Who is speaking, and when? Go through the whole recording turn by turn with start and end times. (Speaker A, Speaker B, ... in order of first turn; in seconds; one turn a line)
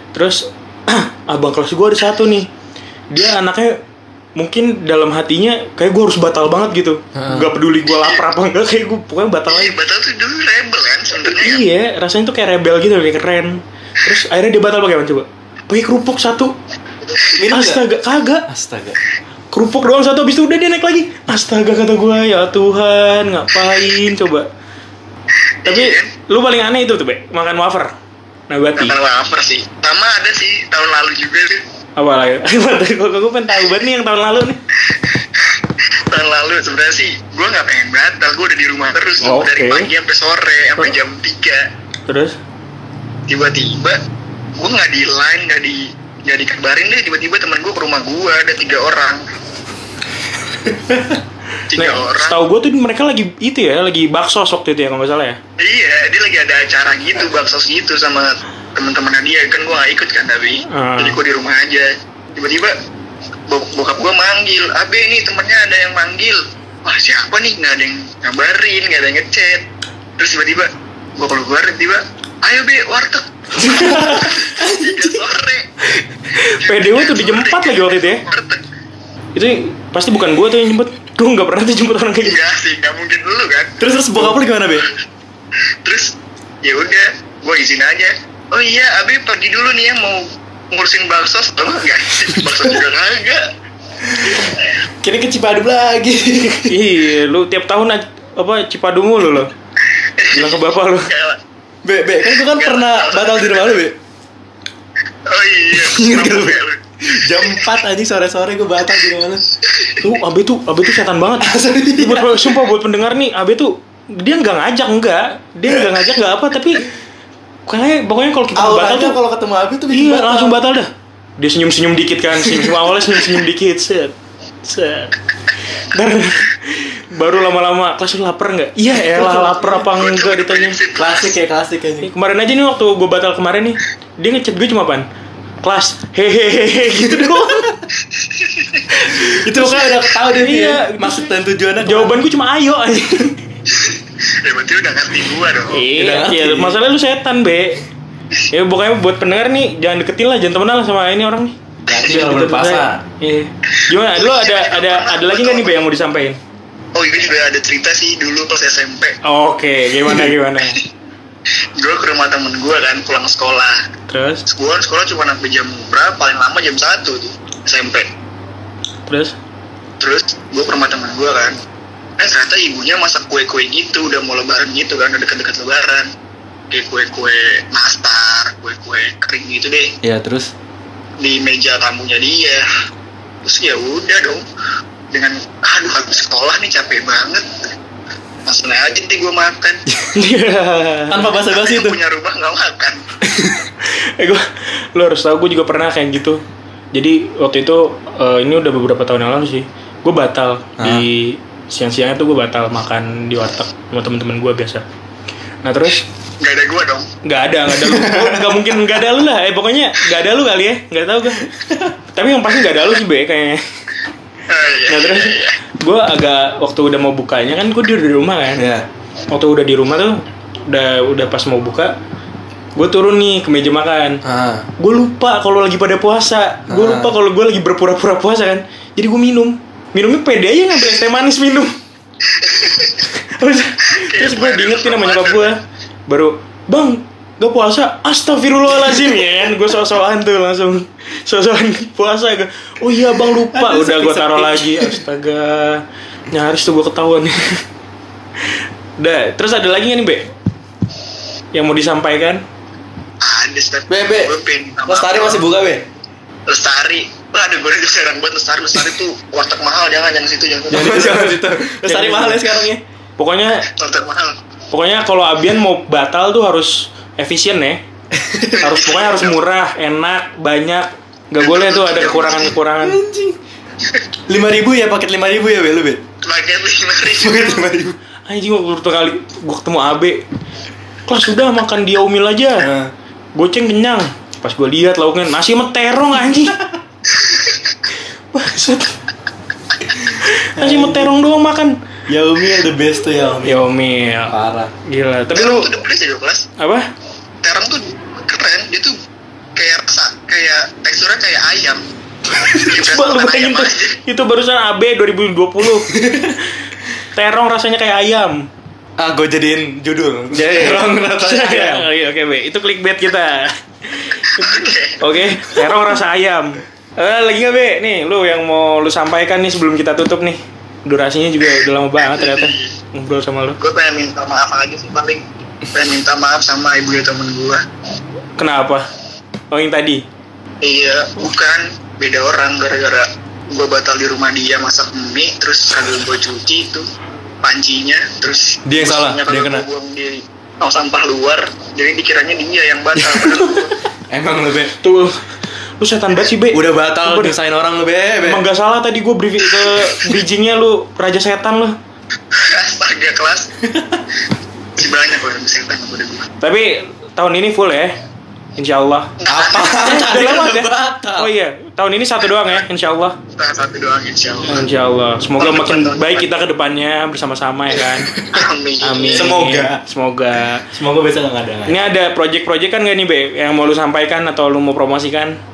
Speaker A: 0.1-2.5
Speaker A: 3.1-3.8
Speaker A: 4.4-9.8
Speaker B: 7.2-7.5
Speaker C: 9.5-11.6
Speaker A: 11.3-16.5
Speaker B: 17.4-17.8
Speaker A: 17.5-18.4
Speaker B: 18.5-19.0
Speaker A: 19.5-24.5
Speaker C: 25.6-26.1
Speaker A: 25.7-27.9
Speaker A: 28.5-29.0
Speaker C: 28.8-31.6
Speaker A: 32.0-34.6
Speaker C: 36.1-41.6
Speaker A: 39.2-39.9
Speaker A: 42.1-42.4
Speaker C: 43.3-44.0
Speaker C: 44.6-49.2
Speaker C: 51.7-52.4
Speaker A: 51.8-55.4
Speaker C: 55.6-62.7
Speaker A: 60.7-61.2
Speaker C: 63.5-69.7
Speaker C: 70.2-75.7
Speaker B: 73.6-75.2
Speaker A: 73.6-74.3
Speaker A: 76.3-78.2
Speaker C: 76.6-78.6
Speaker A: 79.3-82.4
Speaker C: 82.2-83.8
Speaker B: 83.8-84.9
Speaker C: 85.8-93.4
Speaker B: 94.0-94.4
Speaker C: 94.3-94.7
Speaker B: 95.0-96.8
Speaker A: 96.7-99.5
Speaker C: 100.2-101.4
Speaker A: 100.3-101.1
Speaker B: 101.8-104.0
Speaker C: 102.3-103.8
Speaker C: 105.3-106.8
Speaker B: 105.7-109.4
Speaker C: 107.3-107.6
Speaker A: 110.0-116.9
Speaker B: 111.4-112.5
Speaker A: 117.7-119.2
Speaker B: 118.6-120.6
Speaker A: 119.9-124.1
Speaker A: 124.7-125.2
Speaker A: 125.9-130.8
Speaker B: 128.9-129.8
Speaker C: 129.8-131.4
Speaker B: 131.0-132.1
Speaker A: 132.0-135.1
Speaker A: 135.6-137.8
Speaker B: 137.1-137.8
Speaker C: 138.2-138.8
Speaker B: 138.9-142.2
Speaker A: 139.5-143.4
Speaker C: 143.8-145.9
Speaker A: 145.7-147.8
Speaker B: 145.9-146.8
Speaker A: 148.5-156.4
Speaker B: 151.9-153.0
Speaker C: 154.2-155.8
Speaker C: 156.9-159.2
Speaker A: 159.2-160.8
Speaker C: 161.8-163.8
Speaker A: 164.1-164.4
Speaker C: 164.5-168.1
Speaker A: 169.1-169.3
Speaker C: 170.0-171.6
Speaker C: 172.2-176.1
Speaker C: 176.7-179.9
Speaker B: 180.0-180.5
Speaker C: 181.2-182.6
Speaker C: 183.4-184.4
Speaker C: 185.1-187.5
Speaker C: 188.5-189.8
Speaker A: 190.1-191.3
Speaker B: 191.1-192.0
Speaker C: 191.5-193.0
Speaker B: 193.2-193.7
Speaker A: 193.8-196.4
Speaker A: 196.9-204.8
Speaker B: 200.8-201.1
Speaker A: 205.6-206.1
Speaker C: 206.4-207.1
Speaker A: 207.2-211.5
Speaker B: 207.7-208.6
Speaker A: 212.1-213.6
Speaker C: 214.5-215.6
Speaker A: 214.9-218.7
Speaker B: 218.6-218.9
Speaker A: 219.3-220.2
Speaker A: 220.7-221.9
Speaker A: 222.8-224.2
Speaker B: 224.2-224.7
Speaker A: 224.8-231.8
Speaker B: 226.7-227.2
Speaker C: 232.4-232.9
Speaker A: 233.1-235.6
Speaker C: 233.9-235.5
Speaker A: 236.1-247.6
Speaker B: 243.2-245.0
Speaker A: 249.0-250.2
Speaker A: 251.5-252.4
Speaker C: 253.2-255.5
Speaker B: 253.9-254.4
Speaker B: 254.9-255.8
Speaker C: 256.5-261.3
Speaker B: 260.7-262.8
Speaker A: 261.6-262.4
Speaker A: 263.2-263.7
Speaker C: 263.8-264.4
Speaker A: 264.7-267.8
Speaker B: 268.1-268.6
Speaker C: 268.6-269.4
Speaker A: 268.6-273.0
Speaker C: 271.4-272.5
Speaker B: 272.8-273.4
Speaker B: 274.3-276.0
Speaker C: 276.2-277.7
Speaker B: 277.1-278.0
Speaker A: 278.3-280.2
Speaker A: 281.1-282.7
Speaker B: 282.6-282.9
Speaker A: 283.4-286.6
Speaker A: 288.3-288.9
Speaker A: 289.9-291.7
Speaker B: 290.6-291.1
Speaker B: 292.1-293.6
Speaker A: 293.4-294.4
Speaker B: 294.3-294.7
Speaker A: 294.9-295.7
Speaker C: 295.4-296.4
Speaker A: 296.6-296.9
Speaker C: 297.4-298.9
Speaker C: 299.6-301.8
Speaker C: 302.5-304.0
Speaker A: 302.7-305.9
Speaker B: 305.8-306.4
Speaker A: 307.1-308.4
Speaker B: 309.0-311.9
Speaker A: 310.3-323.6
Speaker C: 314.4-315.0
Speaker C: 322.0-322.7
Speaker C: 323.6-327.6
Speaker A: 328.4-328.9
Speaker A: 329.5-330.0
Speaker C: 330.6-336.8
Speaker C: 337.4-343.8
Speaker B: 338.7-339.6
Speaker B: 343.0-344.7
Speaker A: 344.8-345.2
Speaker A: 345.8-347.4
Speaker B: 346.5-348.4
Speaker A: 348.2-351.8
Speaker B: 349.7-350.2
Speaker C: 352.3-353.5
Speaker C: 354.8-356.3
Speaker A: 356.4-358.0
Speaker A: 358.6-359.1
Speaker C: 359.2-360.0
Speaker B: 359.3-361.3
Speaker A: 359.8-363.2
Speaker C: 363.4-364.6
Speaker A: 364.4-368.1
Speaker C: 365.4-366.3
Speaker B: 367.8-368.3
Speaker C: 368.3-369.3
Speaker A: 368.8-370.6
Speaker B: 369.1-369.8
Speaker B: 370.7-371.8
Speaker A: 371.7-375.4